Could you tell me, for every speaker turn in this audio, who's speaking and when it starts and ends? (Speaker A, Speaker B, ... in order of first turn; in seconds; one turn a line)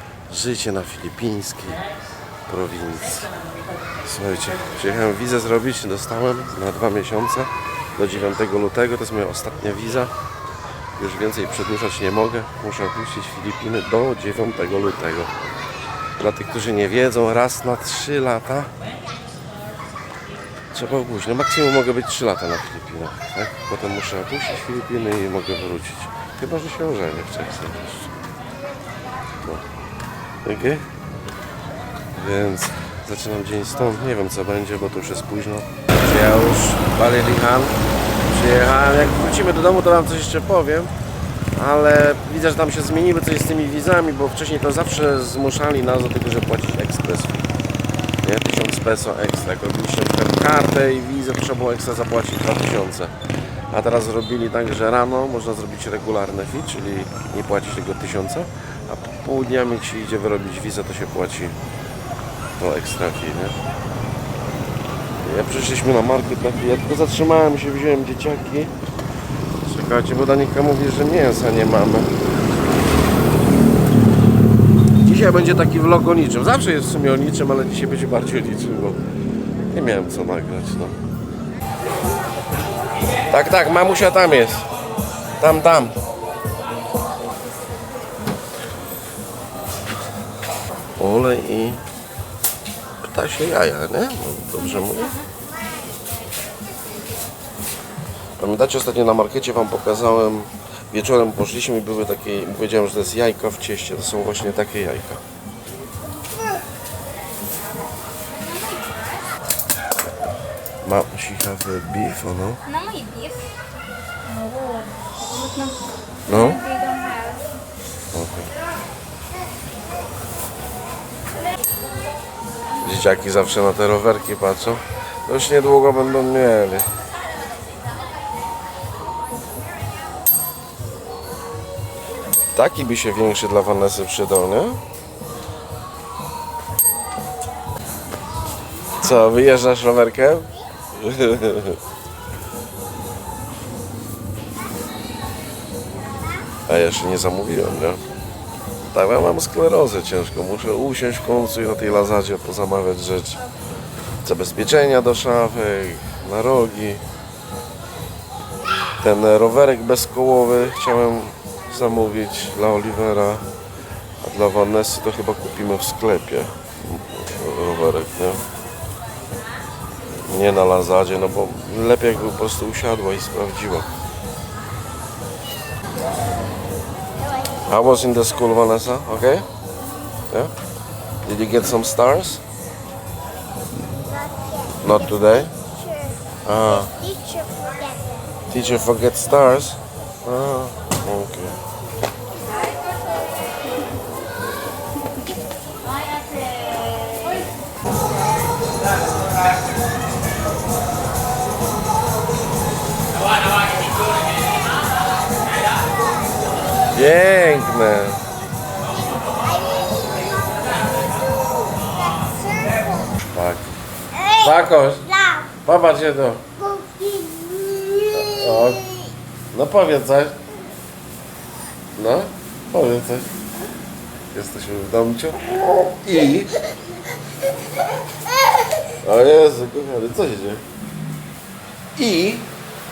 Speaker A: 0.3-1.8
Speaker A: 2.5-3.3
Speaker A: 4.0-10.1
Speaker A: 11.0-15.3
Speaker A: 16.2-18.7
Speaker A: 20.7-28.1
Speaker A: 29.4-29.7
Speaker A: 30.4-30.9
Speaker A: 32.1-40.9
Speaker A: 41.5-47.5
Speaker A: 48.2-53.1
Speaker A: 53.7-61.6
Speaker A: 62.6-63.6
Speaker A: 65.2-68.8
Speaker A: 69.6-72.2
Speaker A: 75.0-79.0
Speaker A: 79.7-81.0
Speaker A: 83.3-84.7
Speaker A: 85.4-86.0
Speaker A: 91.0-91.8
Speaker A: 93.0-95.2
Speaker B: 94.7-95.2
Speaker A: 98.4-105.2
Speaker B: 108.3-109.2
Speaker A: 110.8-112.6
Speaker B: 112.7-113.5
Speaker B: 114.3-117.5
Speaker A: 116.3-116.6
Speaker A: 118.1-118.5
Speaker A: 122.8-126.8
Speaker A: 132.5-134.8
Speaker A: 139.0-141.8
Speaker A: 146.7-148.0
Speaker A: 148.9-153.4
Speaker A: 154.2-157.0
Speaker A: 159.0-163.5
Speaker A: 164.2-168.4
Speaker A: 170.2-173.9
Speaker C: 177.2-177.6
Speaker A: 177.7-179.5
Speaker A: 181.2-182.4
Speaker C: 183.9-186.2
Speaker A: 184.8-185.5
Speaker A: 186.4-186.9
Speaker C: 186.8-188.3
Speaker A: 188.5-191.6
Speaker B: 192.5-193.0
Speaker B: 195.8-197.5
Speaker C: 205.9-206.3
Speaker A: 206.9-208.2
Speaker C: 208.9-213.2
Speaker A: 213.1-213.8
Speaker A: 214.3-215.1
Speaker C: 215.1-215.5
Speaker A: 215.6-216.5
Speaker C: 216.6-219.1
Speaker A: 218.1-218.9
Speaker A: 219.5-220.4
Speaker A: 222.0-223.3
Speaker A: 224.3-226.5
Speaker A: 229.0-230.6
Speaker A: 231.9-232.5